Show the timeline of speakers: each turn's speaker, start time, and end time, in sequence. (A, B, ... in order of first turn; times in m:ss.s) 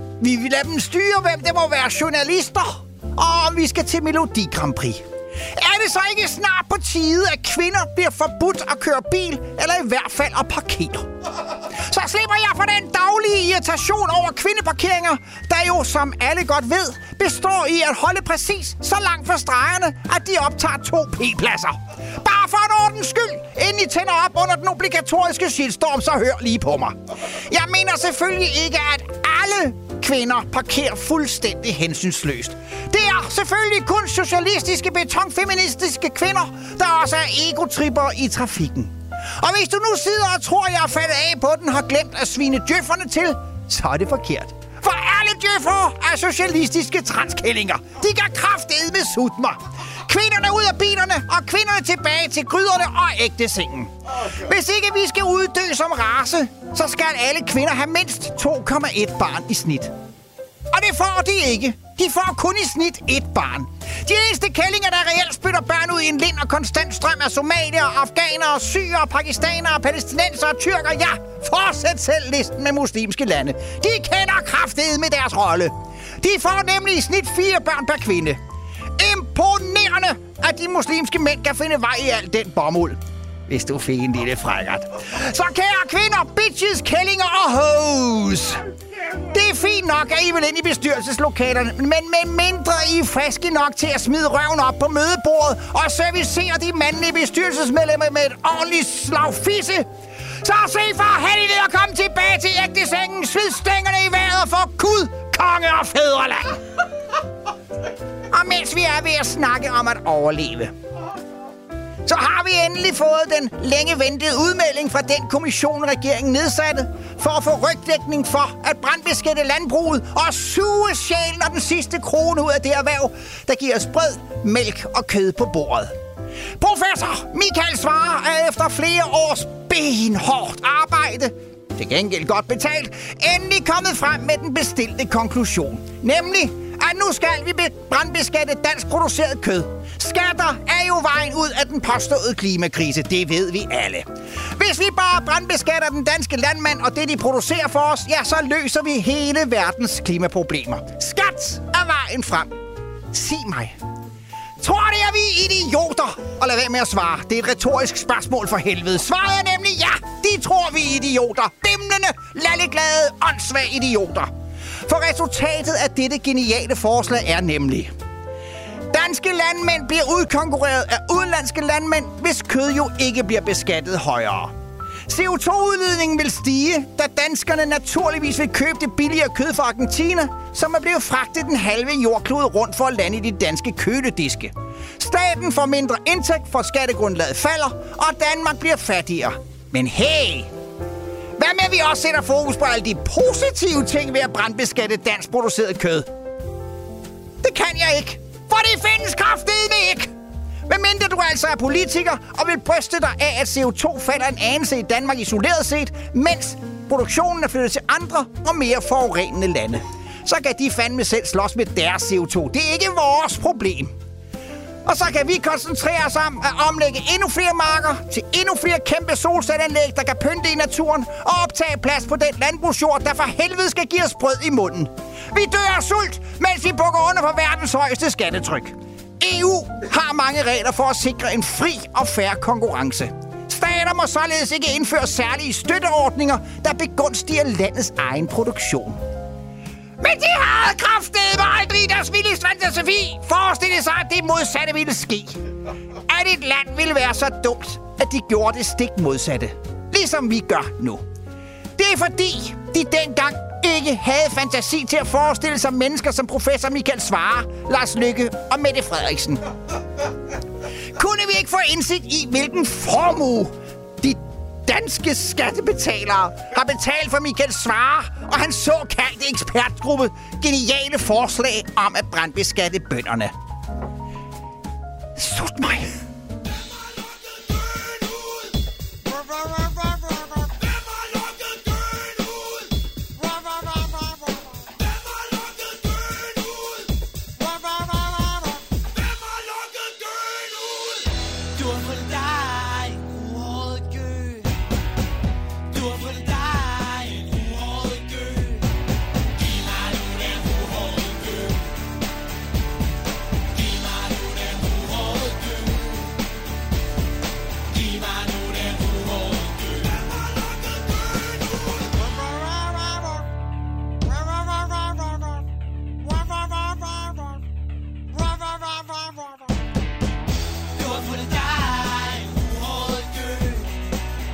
0:00.2-0:59.9 A
1:00.7-1:18.4 A
1:19.0-1:39.9 A
1:40.4-1:46.6 A
1:48.3-1:50.7 A
1:52.0-2:05.9 A
2:06.6-2:32.5 A
2:33.1-2:33.8 A
2:34.6-2:44.3 A
2:44.8-2:47.9 A
2:48.9-2:54.5 A
2:55.1-3:10.5 A
3:11.4-3:16.1 A
3:17.4-3:20.1 A
3:20.7-3:33.9 A
3:34.8-3:59.0 A
4:00.0-4:05.4 A
4:06.1-4:11.0 A
4:11.8-4:19.4 A
4:20.9-4:33.3 A
4:35.2-4:36.0 A